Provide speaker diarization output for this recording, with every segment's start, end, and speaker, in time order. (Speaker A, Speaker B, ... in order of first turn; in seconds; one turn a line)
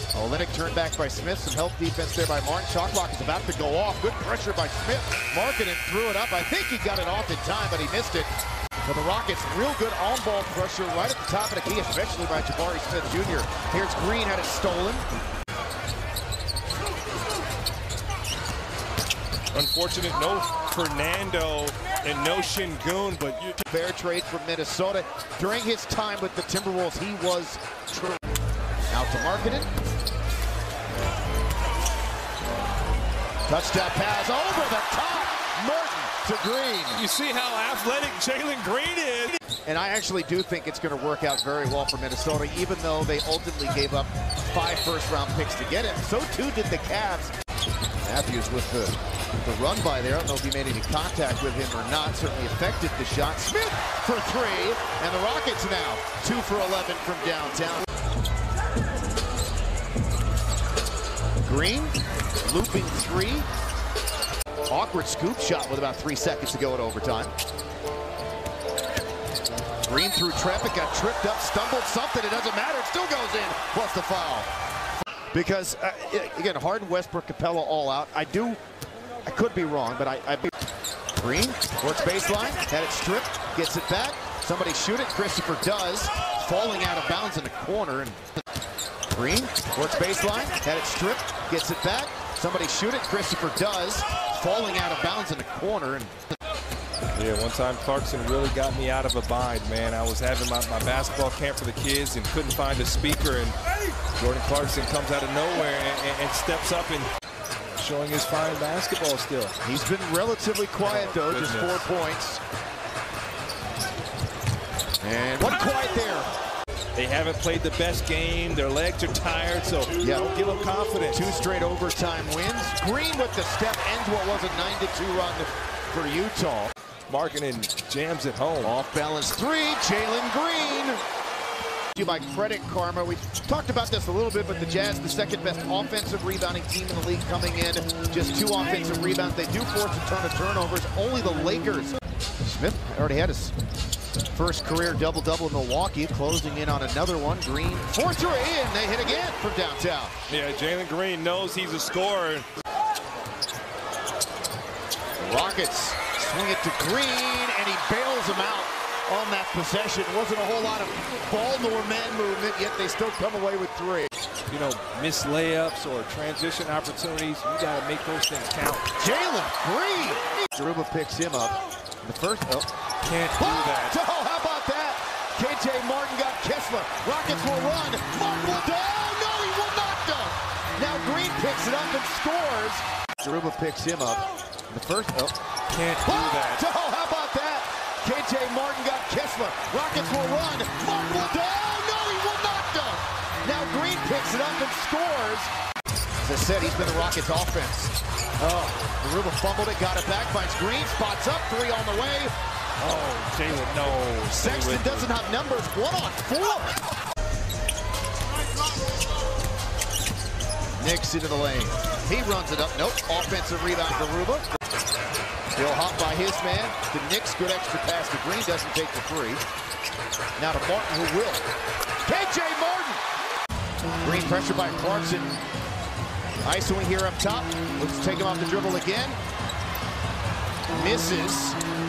Speaker A: 0.1-8.3
Speaker A: 8.8-15.1
Speaker B: 19.5-23.6
Speaker A: 23.7-28.2
Speaker A: 28.9-29.7
Speaker A: 33.5-37.0
Speaker B: 37.0-39.4
Speaker A: 39.6-47.3
Speaker A: 48.0-57.9
Speaker A: 61.4-63.5
Speaker A: 64.7-67.3
Speaker A: 69.8-74.5
Speaker A: 75.3-78.6
Speaker A: 79.2-80.5
Speaker A: 81.2-88.2
Speaker A: 89.1-96.2
Speaker B: 97.2-103.6
Speaker B: 104.2-107.1
Speaker B: 107.7-109.5
Speaker A: 109.6-112.4
Speaker B: 110.8-111.9
Speaker A: 115.0-116.3
Speaker B: 117.0-121.4
Speaker A: 120.0-120.3
Speaker A: 121.1-126.7
Speaker B: 127.1-128.7
Speaker A: 128.6-131.0
Speaker A: 131.9-143.5
Speaker A: 144.3-150.1
Speaker B: 150.3-152.5
Speaker A: 155.2-164.1
Speaker B: 164.5-168.9
Speaker A: 169.0-172.7
Speaker B: 173.0-173.9
Speaker A: 173.4-185.4
Speaker B: 185.7-186.6
Speaker A: 186.1-195.5
Speaker A: 196.2-202.3
Speaker B: 202.8-205.1
Speaker A: 204.3-206.7
Speaker A: 210.8-214.4
Speaker A: 215.6-219.4
Speaker A: 220.4-221.4
Speaker A: 222.1-223.0
Speaker A: 224.0-225.4
Speaker A: 226.4-229.2
Speaker A: 230.7-231.6